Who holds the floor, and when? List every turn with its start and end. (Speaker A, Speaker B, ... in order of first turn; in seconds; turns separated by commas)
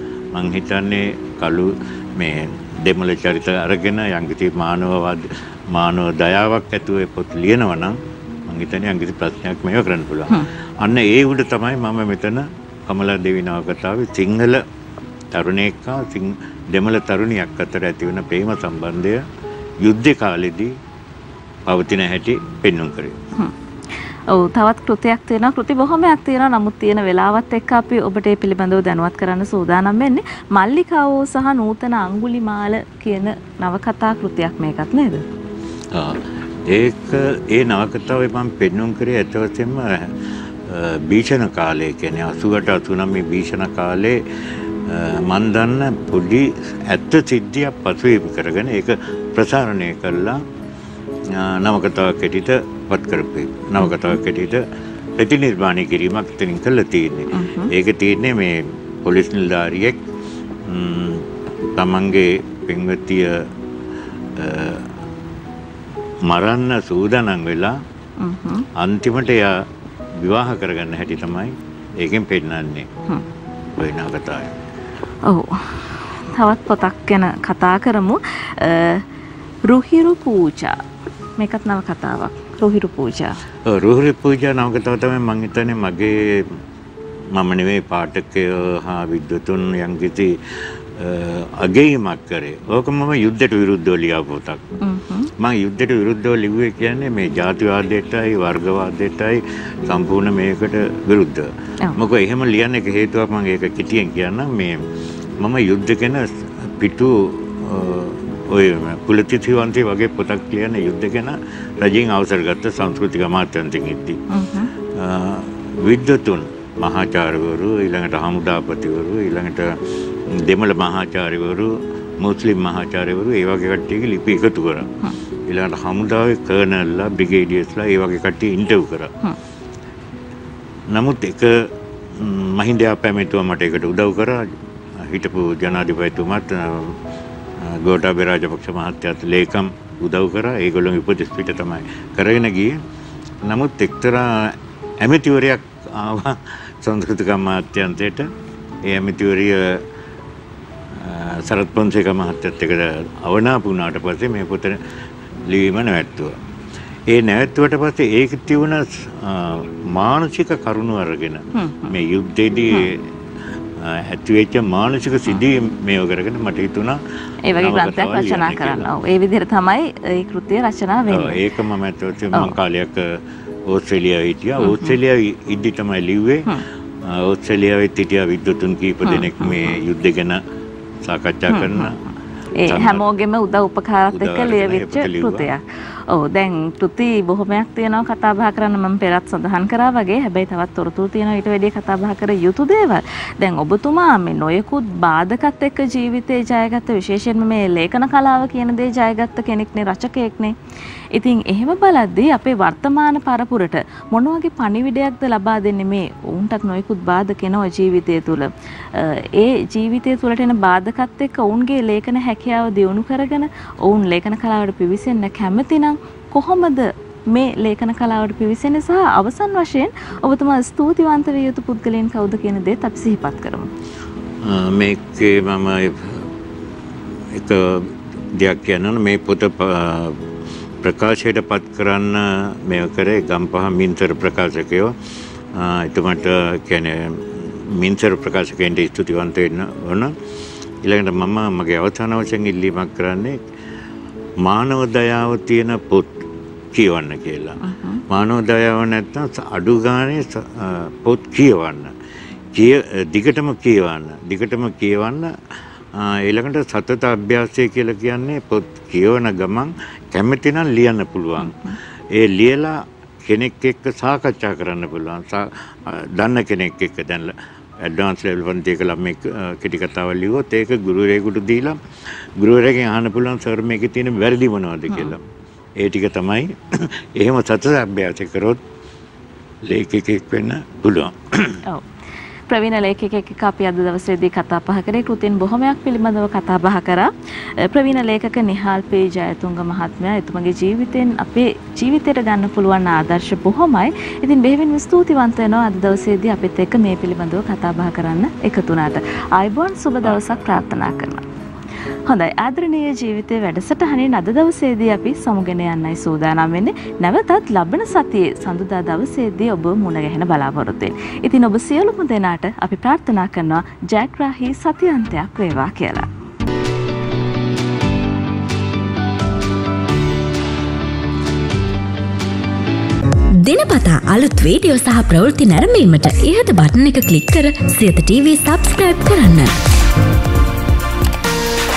Speaker A: 0.3-14.6, Speaker A: 15.3-19.2, Speaker A: 19.8-20.7, Speaker A: 21.6-23.2, Speaker B: 24.3-35.2, Speaker A: 35.9-40.1, Speaker A: 40.6-44.2, Speaker A: 44.8-50.4, Speaker A: 51.3-54.6, Speaker B: 53.8-54.1, Speaker A: 55.2-60.0, Speaker B: 57.3-57.7, Speaker A: 60.6-63.5, Speaker A: 64.3-64.9, Speaker A: 66.2-67.8, Speaker B: 68.2-68.7, Speaker A: 68.8-69.6, Speaker A: 70.2-72.9, Speaker A: 73.8-74.6, Speaker B: 75.2-79.0, Speaker B: 79.7-80.8, Speaker B: 81.4-83.4, Speaker A: 83.7-86.6, Speaker A: 87.3-94.6, Speaker B: 94.8-95.3, Speaker A: 95.4-104.8, Speaker A: 105.4-114.2, Speaker B: 114.3-114.7, Speaker A: 114.9-124.9, Speaker A: 125.5-129.1, Speaker A: 130.9-137.0, Speaker A: 137.6-142.8, Speaker A: 143.4-148.3, Speaker A: 148.8-149.8, Speaker A: 150.9-154.8, Speaker A: 155.5-156.3, Speaker A: 157.1-163.0, Speaker B: 161.5-161.9, Speaker A: 163.8-167.0, Speaker B: 167.4-171.4, Speaker A: 167.5-168.9, Speaker A: 171.1-180.4, Speaker B: 174.6-175.0, Speaker B: 179.0-179.8, Speaker A: 181.0-182.0, Speaker B: 181.5-182.0, Speaker B: 182.6-200.5, Speaker A: 182.7-183.1, Speaker A: 184.1-185.5, Speaker B: 201.1-223.7, Speaker A: 224.4-226.3, Speaker A: 227.3-230.3, Speaker A: 230.8-234.9, Speaker A: 235.5-240.1, Speaker A: 240.8-243.4, Speaker A: 244.4-251.9, Speaker B: 247.6-248.0, Speaker A: 252.5-255.3, Speaker A: 255.9-261.5, Speaker B: 261.4-261.8, Speaker A: 262.1-271.8, Speaker A: 272.4-275.2, Speaker B: 274.9-275.1, Speaker A: 275.8-278.6, Speaker A: 279.6-281.6, Speaker B: 282.5-301.2, Speaker A: 300.0-300.5, Speaker B: 302.1-316.1, Speaker C: 323.4-329.5